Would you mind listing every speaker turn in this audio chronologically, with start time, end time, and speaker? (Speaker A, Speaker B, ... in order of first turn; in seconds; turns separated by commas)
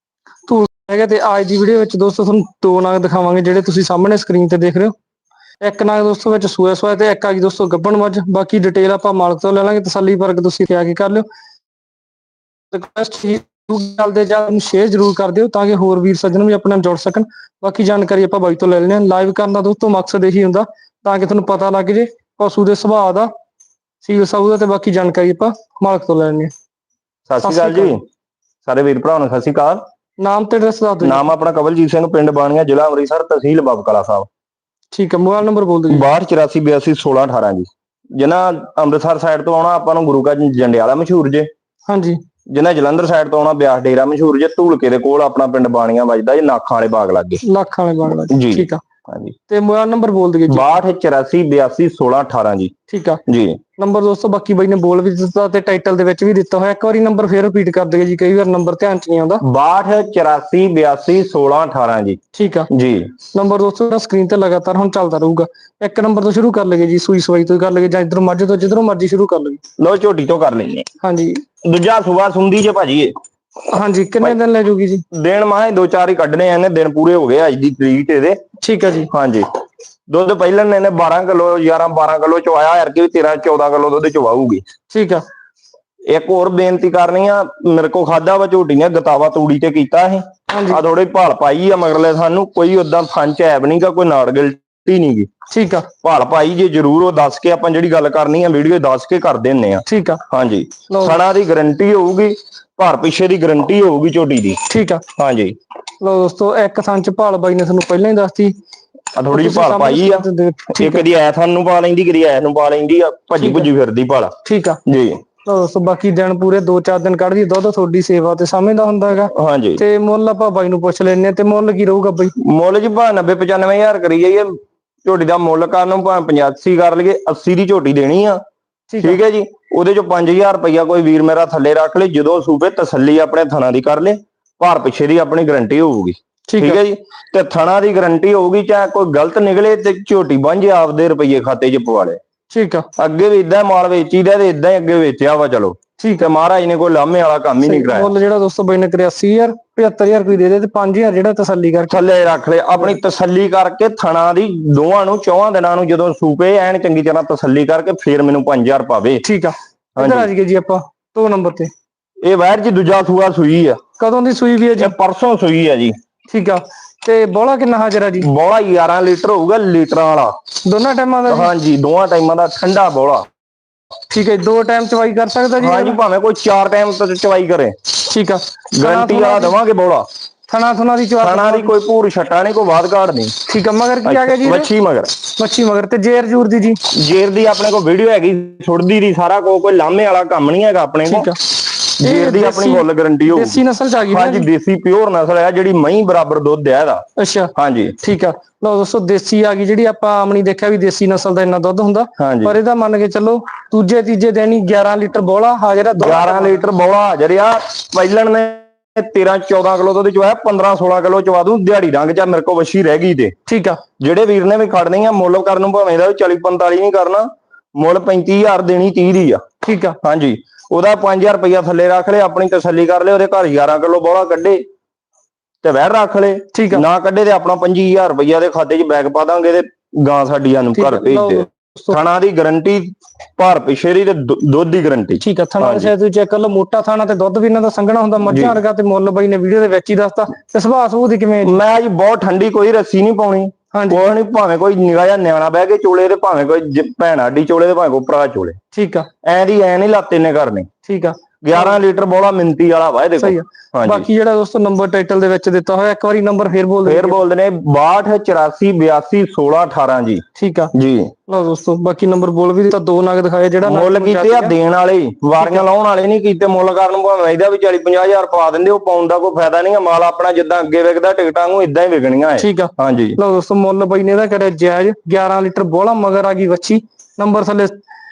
Speaker A: 0.5-4.9, Speaker A: 5.6-11.2, Speaker A: 12.7-23.3, Speaker A: 24.0-26.5, Speaker B: 27.3-28.0, Speaker A: 27.4-27.9, Speaker B: 28.6-29.8, Speaker A: 30.2-31.2, Speaker B: 31.0-34.3, Speaker A: 34.9-36.0, Speaker B: 35.9-41.5, Speaker A: 41.9-42.2, Speaker B: 42.5-47.4, Speaker A: 47.4-48.8, Speaker B: 48.1-49.3, Speaker A: 49.5-50.7, Speaker B: 50.5-52.7, Speaker A: 52.9-53.2, Speaker B: 53.3-53.6, Speaker A: 53.8-59.4, Speaker B: 59.4-62.2, Speaker A: 62.3-62.7, Speaker B: 62.7-63.1, Speaker A: 63.3-69.6, Speaker B: 69.8-70.9, Speaker A: 71.0-71.4, Speaker B: 71.6-73.1, Speaker A: 73.7-75.0, Speaker B: 75.1-78.4, Speaker A: 78.6-79.1, Speaker B: 79.1-79.5, Speaker B: 80.1-84.6, Speaker A: 84.9-85.2, Speaker B: 86.1-95.3, Speaker A: 90.5-90.8, Speaker A: 95.5-95.9, Speaker B: 96.0-104.6, Speaker A: 99.8-100.2, Speaker A: 100.9-101.2, Speaker A: 104.7-105.0, Speaker B: 105.2-105.5, Speaker A: 106.0-108.5, Speaker B: 109.2-114.3, Speaker A: 109.3-111.0, Speaker A: 113.4-113.7, Speaker A: 114.4-114.8, Speaker B: 114.8-115.2, Speaker A: 115.4-122.3, Speaker B: 119.3-119.8, Speaker B: 122.4-124.5, Speaker B: 125.0-128.4, Speaker A: 128.9-129.2, Speaker B: 129.0-142.2, Speaker A: 136.5-136.8, Speaker A: 142.5-142.9, Speaker B: 143.0-148.1, Speaker A: 146.0-146.3, Speaker A: 147.6-152.0, Speaker B: 151.9-159.2, Speaker A: 159.2-161.7, Speaker B: 160.0-160.3, Speaker B: 162.2-163.8, Speaker A: 164.0-164.9, Speaker B: 164.8-165.9, Speaker A: 166.3-168.3, Speaker B: 168.2-170.3, Speaker A: 170.6-171.5, Speaker B: 171.3-173.2, Speaker A: 174.1-176.0, Speaker B: 175.6-177.8, Speaker A: 178.1-179.6, Speaker B: 178.8-180.1, Speaker A: 180.5-181.7, Speaker B: 181.2-183.3, Speaker A: 183.5-184.7, Speaker B: 184.0-185.1, Speaker A: 185.4-186.8, Speaker B: 186.9-191.3, Speaker A: 191.1-191.4, Speaker A: 192.0-194.5, Speaker B: 192.0-197.0, Speaker A: 197.2-206.6, Speaker B: 197.6-197.9, Speaker B: 202.2-202.6, Speaker B: 206.0-213.3, Speaker A: 213.5-213.8, Speaker B: 214.0-219.4, Speaker A: 219.6-220.0, Speaker B: 220.0-224.6, Speaker B: 225.6-235.9, Speaker A: 226.5-226.8, Speaker A: 230.7-232.0, Speaker A: 235.2-241.6, Speaker B: 238.2-238.6, Speaker B: 241.4-248.6, Speaker A: 243.7-244.1, Speaker A: 248.7-249.1, Speaker B: 249.2-250.7, Speaker A: 250.8-251.8, Speaker B: 251.4-254.1, Speaker A: 253.2-257.2, Speaker B: 256.8-260.2, Speaker A: 260.4-260.7, Speaker B: 260.7-261.1, Speaker A: 261.3-264.5, Speaker B: 263.6-273.2, Speaker A: 272.4-277.8